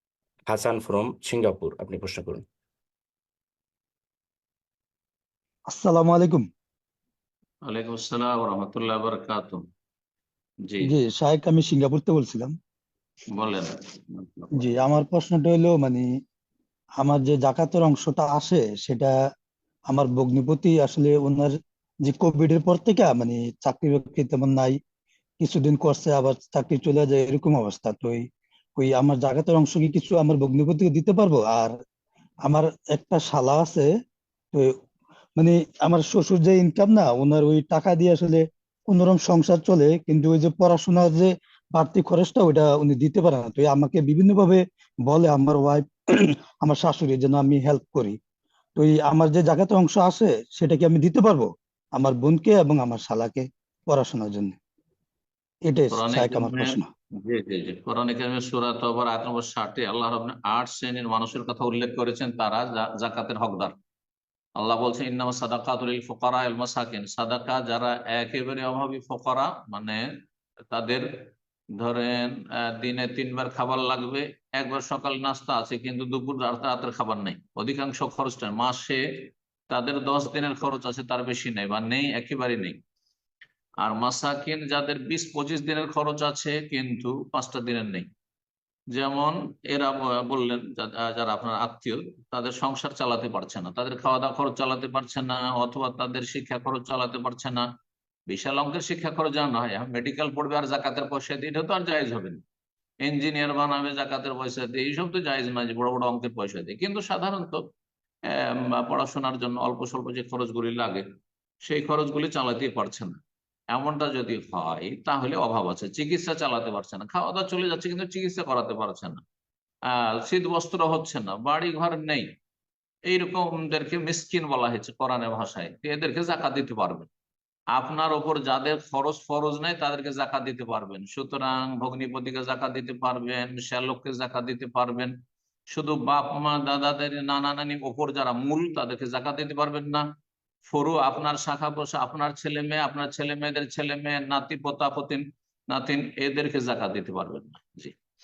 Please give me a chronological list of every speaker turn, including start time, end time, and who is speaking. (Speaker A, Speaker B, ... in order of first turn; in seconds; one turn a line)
Speaker A: 0.5-2.5
Speaker B: 5.7-6.4
Speaker C: 7.7-9.6
Speaker C: 10.7-10.9
Speaker B: 10.8-12.5
Speaker C: 13.3-14.7
Speaker B: 14.6-16.1
Speaker B: 17.0-19.1
Speaker B: 19.9-21.5
Speaker B: 22.1-24.8
Speaker B: 25.4-28.2
Speaker B: 28.8-31.7
Speaker B: 32.5-33.9
Speaker B: 35.4-45.8
Speaker B: 46.6-48.1
Speaker B: 48.8-54.5
Speaker B: 55.7-56.9
Speaker C: 55.9-63.7
Speaker C: 64.6-70.0
Speaker C: 70.7-71.1
Speaker C: 71.8-79.0
Speaker C: 79.7-82.8
Speaker C: 83.8-88.1
Speaker C: 89.0-97.6
Speaker C: 98.3-102.4
Speaker C: 103.1-107.6
Speaker C: 108.3-111.0
Speaker C: 111.6-113.2
Speaker C: 113.7-119.2
Speaker C: 119.9-122.3
Speaker C: 123.1-127.1
Speaker C: 127.8-135.2
Speaker C: 135.7-140.1
Speaker C: 140.7-147.9